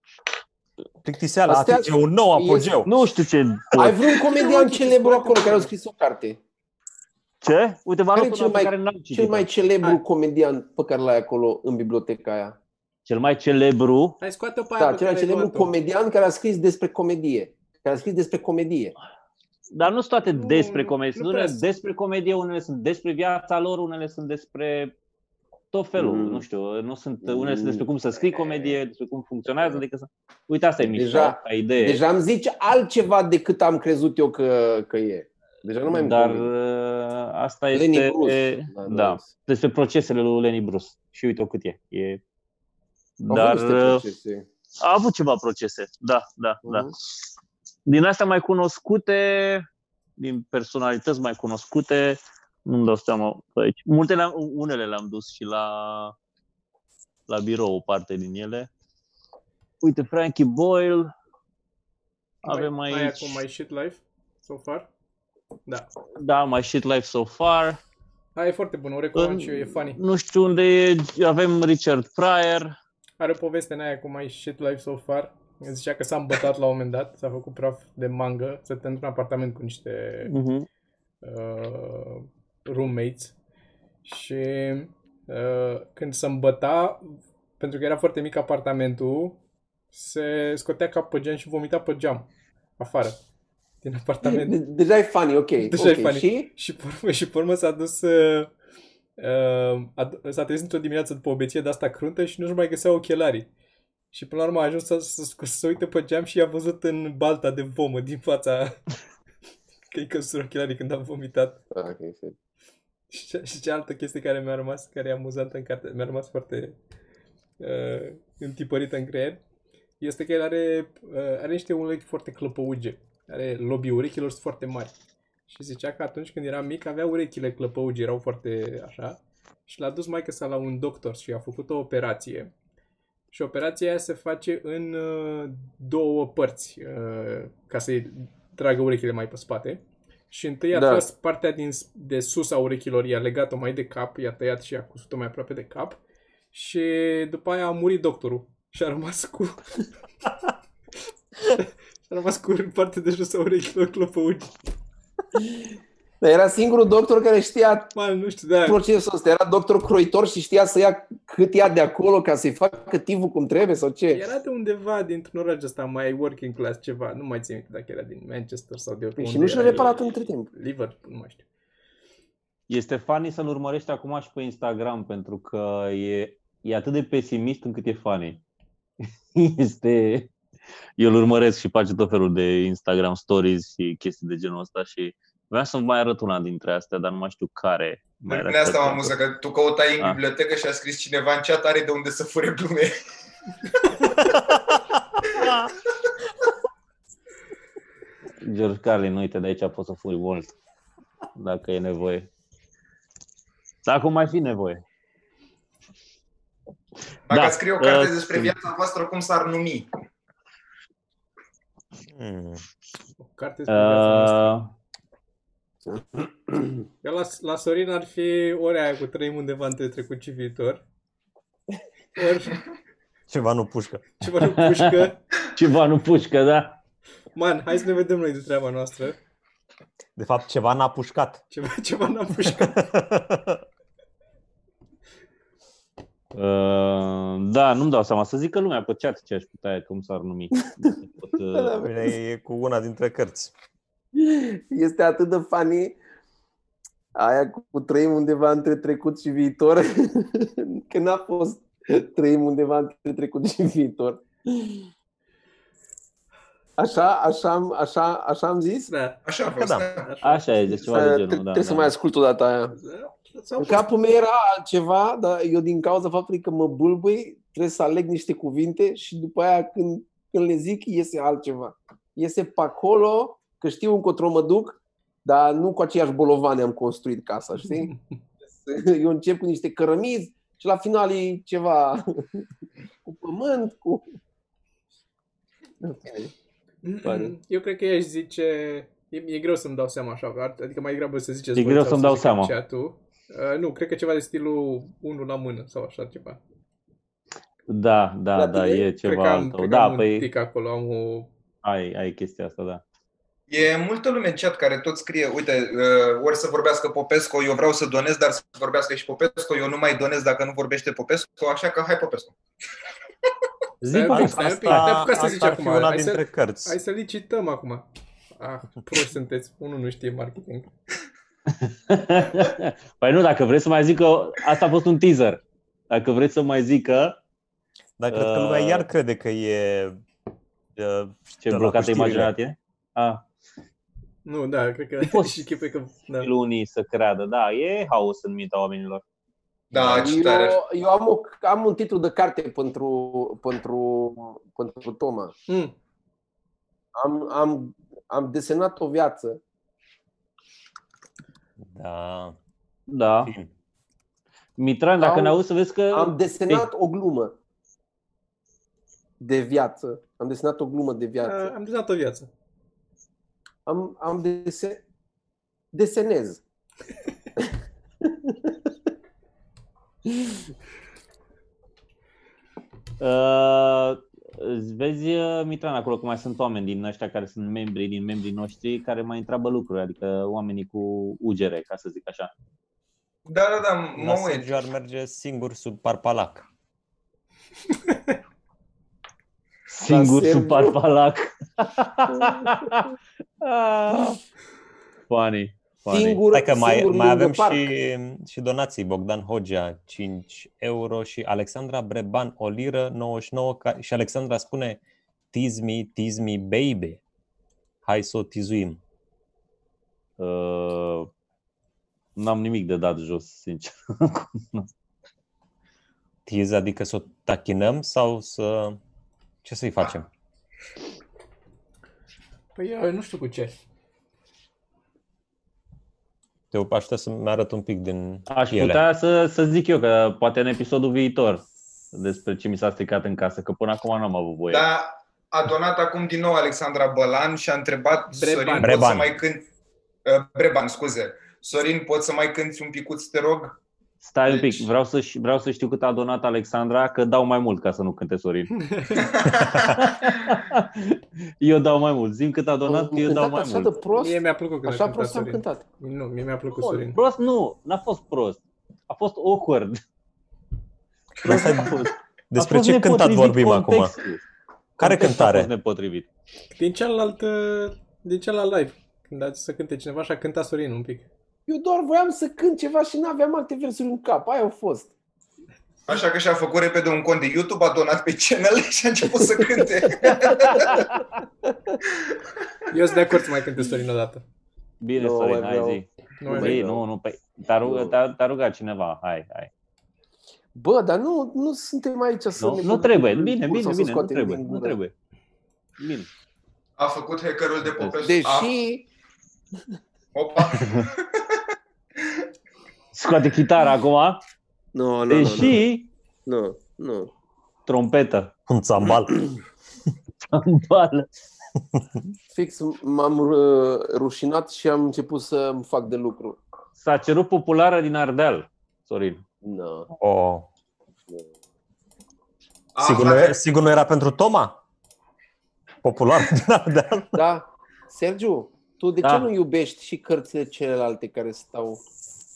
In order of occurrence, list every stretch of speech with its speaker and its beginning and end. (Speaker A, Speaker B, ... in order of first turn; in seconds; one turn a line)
Speaker A: 1.0-2.9
Speaker B: 1.5-2.7
Speaker C: 2.8-4.2
Speaker B: 3.7-6.4
Speaker D: 4.3-5.7
Speaker C: 7.4-9.5
Speaker B: 8.1-12.6
Speaker C: 13.1-14.2
Speaker D: 14.2-15.7
Speaker B: 14.8-18.9
Speaker C: 19.7-24.9
Speaker D: 20.3-21.6
Speaker C: 25.7-32.0
Speaker B: 26.0-26.4
Speaker B: 27.2-27.9
Speaker B: 30.9-36.5
Speaker C: 35.9-42.2
Speaker B: 37.7-39.3
Speaker C: 43.2-44.0
Speaker B: 43.3-44.5
Speaker C: 44.8-47.0
Speaker B: 46.6-46.9
Speaker C: 47.9-49.6
Speaker C: 50.2-56.1
Speaker C: 57.3-58.7
Speaker C: 59.8-61.1
Speaker C: 62.4-63.4
Speaker D: 62.4-64.9
Speaker C: 66.2-67.8
Speaker D: 68.3-70.0
Speaker C: 69.1-72.8
Speaker D: 73.2-80.3
Speaker C: 80.3-80.7
Speaker D: 81.2-83.3
Speaker D: 84.0-89.4
Speaker D: 89.9-92.3
Speaker D: 92.8-93.2
Speaker D: 93.8-94.6
Speaker B: 94.2-96.5
Speaker D: 95.6-98.5
Speaker D: 99.2-103.5
Speaker D: 104.1-108.8
Speaker D: 109.9-111.6
Speaker B: 111.7-112.3
Speaker D: 113.1-116.8
Speaker D: 117.6-119.4
Speaker D: 120.0-125.0
Speaker D: 125.5-132.5
Speaker D: 133.3-146.0
Speaker B: 140.7-141.1
Speaker D: 146.5-149.6
Speaker D: 151.5-154.5
Speaker B: 156.2-157.9
Speaker D: 157.9-158.8
Speaker B: 158.6-164.2
Speaker D: 164.1-171.4
Speaker B: 169.2-170.5
Speaker C: 169.6-169.8
Speaker C: 172.7-178.4
Speaker C: 179.0-180.3
Speaker C: 181.0-189.1
Speaker E: 188.3-192.9
Speaker C: 198.4-200.5
Speaker C: 201.3-202.3
Speaker C: 203.8-204.8
Speaker E: 207.3-209.9
Speaker C: 207.3-208.5
Speaker A: 212.1-212.6
Speaker D: 213.2-214.6
Speaker C: 213.7-214.7
Speaker B: 215.9-216.8
Speaker D: 217.0-220.8
Speaker D: 222.2-222.6
Speaker A: 223.3-224.1
Speaker D: 224.2-225.2
Speaker C: 224.6-226.8
Speaker D: 227.3-229.2
Speaker A: 230.2-231.4
Speaker D: 231.5-232.8
Speaker A: 232.4-233.6
Speaker C: 236.3-241.9
Speaker B: 241.5-242.1
Speaker A: 241.8-243.5
Speaker B: 244.2-245.9
Speaker B: 247.1-254.9
Speaker B: 256.8-258.9
Speaker D: 258.9-259.2
Speaker E: 259.2-260.1
Speaker A: 259.5-259.9
Speaker D: 260.0-260.9
Speaker C: 260.2-261.9
Speaker B: 260.9-262.8
Speaker D: 262.8-263.9
Speaker B: 263.6-277.9
Speaker B: 278.5-282.4
Speaker B: 283.0-284.0
Speaker B: 285.8-286.3
Speaker D: 286.8-296.4
Speaker B: 287.0-287.3
Speaker C: 291.6-292.5
Speaker C: 297.7-300.3
Speaker B: 298.4-298.9
Speaker D: 299.0-301.3
Speaker C: 301.6-302.8
Speaker E: 303.5-312.4
Speaker C: 313.8-315.1
Speaker D: 313.9-317.9
Speaker A: 314.1-316.8
Speaker D: 318.4-320.7
Speaker C: 321.6-327.2
Speaker A: 328.0-330.0
Speaker C: 328.1-328.9
Speaker A: 330.8-332.3
Speaker C: 331.4-333.2
Speaker D: 334.2-336.3
Speaker C: 335.0-335.4
Speaker C: 336.2-339.0
Speaker E: 339.7-340.6
Speaker A: 339.7-340.1
Speaker B: 339.9-345.3
Speaker D: 345.5-345.7
Speaker B: 346.9-349.4
Speaker A: 351.6-352.4
Speaker C: 352.9-353.3
Speaker A: 353.2-353.5
Speaker C: 354.6-356.7
Speaker B: 355.0-355.4
Speaker B: 355.9-357.3
Speaker B: 359.2-361.5
Speaker D: 361.2-362.3
Speaker B: 363.6-364.8
Speaker B: 365.7-366.4
Speaker B: 367.4-368.5
Speaker B: 370.1-370.4
Speaker C: 373.0-382.3
Speaker E: 383.3-384.5
Speaker A: 384.0-386.5
Speaker C: 389.7-394.2
Speaker B: 389.9-390.8
Speaker B: 392.1-392.9
Speaker C: 395.1-396.2
Speaker B: 395.9-397.7
Speaker A: 396.3-404.8
Speaker A: 405.3-407.0
Speaker A: 407.8-408.8
Speaker C: 410.2-411.1
Speaker C: 412.1-414.7
Speaker A: 416.2-418.8
Speaker A: 419.4-420.1
Speaker D: 422.5-423.6
Speaker A: 426.5-428.8
Speaker C: 428.3-434.6
Speaker E: 434.5-439.4
Speaker D: 438.1-438.8
Speaker A: 438.6-439.1
Speaker E: 440.0-443.6
Speaker C: 444.0-448.6
Speaker E: 444.2-444.7
Speaker D: 448.6-449.1
Speaker E: 449.0-449.9
Speaker C: 449.5-453.8
Speaker B: 452.6-455.6
Speaker D: 453.9-457.0
Speaker C: 456.6-459.8
Speaker A: 461.2-461.8
Speaker C: 461.2-464.2
Speaker E: 461.2-461.5
Speaker A: 462.3-463.9
Speaker A: 464.8-465.5
Speaker C: 464.8-466.1
Speaker D: 466.5-471.1
Speaker B: 471.5-474.9
Speaker E: 475.9-480.9
Speaker B: 480.1-480.8
Speaker C: 480.6-480.8
Speaker B: 481.5-481.8
Speaker E: 481.9-482.2
Speaker D: 482.7-484.2
Speaker C: 484.8-489.5
Speaker B: 485.0-486.8
Speaker D: 486.2-486.6
Speaker B: 487.6-488.0
Speaker B: 490.5-494.8
Speaker C: 492.4-494.9
Speaker C: 495.8-496.1
Speaker E: 496.8-498.5
Speaker C: 497.6-497.9
Speaker B: 498.0-498.9
Speaker E: 500.1-501.4
Speaker C: 502.9-504.2
Speaker B: 504.7-505.6
Speaker C: 505.1-505.9
Speaker B: 506.2-507.1
Speaker C: 507.7-508.3
Speaker A: 508.5-509.2
Speaker C: 510.3-511.1
Speaker B: 512.3-516.4
Speaker C: 516.8-519.2
Speaker B: 519.4-519.9
Speaker A: 520.0-520.5
Speaker E: 522.8-523.4
Speaker A: 522.8-524.6
Speaker A: 525.8-527.2
Speaker B: 527.1-531.8
Speaker C: 529.0-529.3